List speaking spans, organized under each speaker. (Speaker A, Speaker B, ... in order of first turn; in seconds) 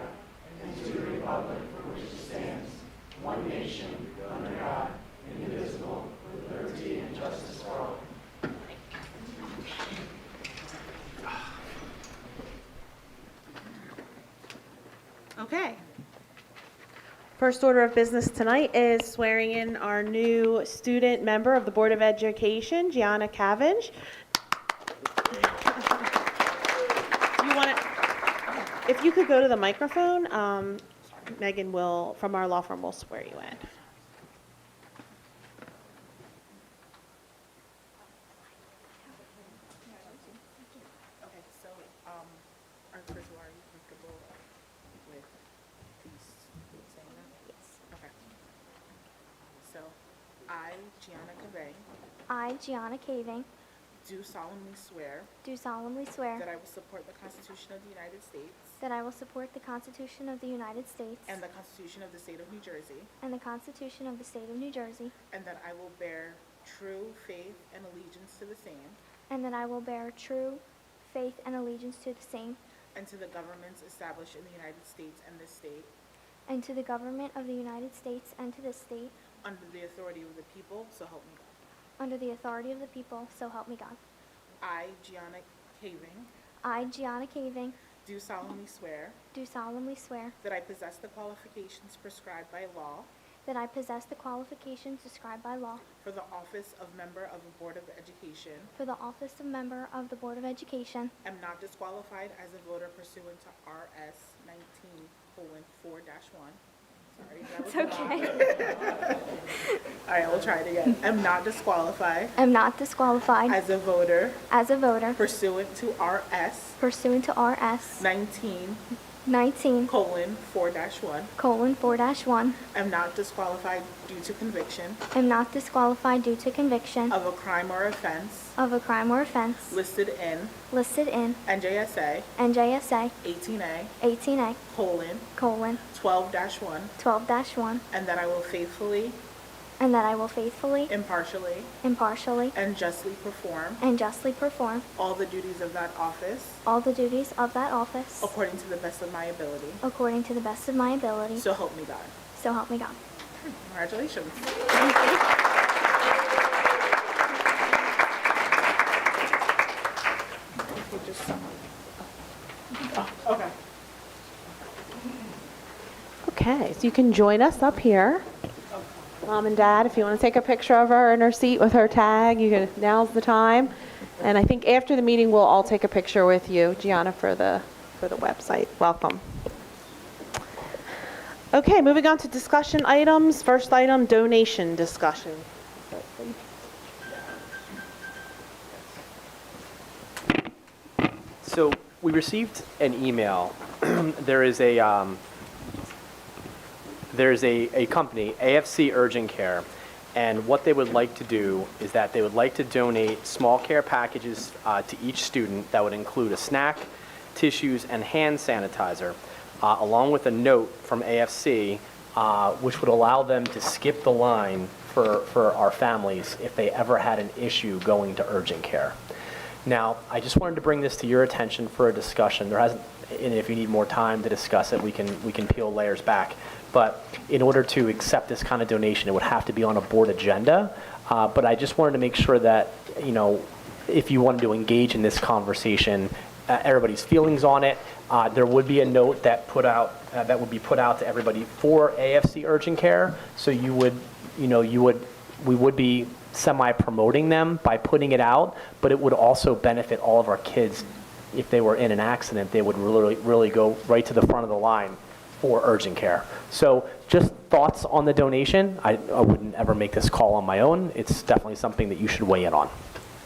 Speaker A: 15.4-15.7, 41.2-44.4, 45.0-45.3, 46.0-47.3, 47.9-48.1, 49.4-49.9, 50.5-51.8, 54.0-55.3, 56.4-58.8, 61.3-63.1, 65.3-69.0, 72.9-75.9, 79.4-81.5, 84.6-86.3, 88.0-89.2, 90.4-93.1, 96.0-98.7, 101.2-106.6, 107.1-109.2, 110.0-112.4, 113.5-114.4, 115.2-116.8, 118.0-118.8, 119.8-121.3, 122.7-125.0, 127.1-128.6, 129.7-130.6, 131.4-132.3, 133.2-133.9, 134.7-135.3, 135.9-136.9, 137.9-139.2, 140.9-141.7, 142.5-143.8, 144.9-146.6, 148.2-149.8, 151.3-152.1, 153.5-154.6, 160.7-161.6, 162.9-163.5
Speaker B: 15.4-15.8, 17.4-23.9, 27.4-27.8, 28.8-33.7, 166.2-168.2, 169.2-179.2, 181.5-186.4
Speaker C: 47.5-47.8, 52.3-53.5, 55.4-56.4, 58.8-61.4, 63.2-65.1, 69.3-72.6, 76.5-79.1, 82.0-84.0, 86.6-87.8, 89.3-90.3, 93.5-95.8, 98.8-101.1, 107.6-108.7, 112.4-113.6, 114.5-115.2, 116.8-118.0, 119.2-119.9, 121.4-122.6, 125.1-127.1, 128.6-129.8, 130.7-131.4, 132.4-133.1, 134.0-134.6, 135.3-135.8, 137.0-137.8, 139.8-140.9, 141.8-142.5, 143.8-144.8, 146.6-148.3, 149.8-151.4, 152.3-153.0
Speaker D: 191.4-195.2, 197.1-218.9, 219.6-262.7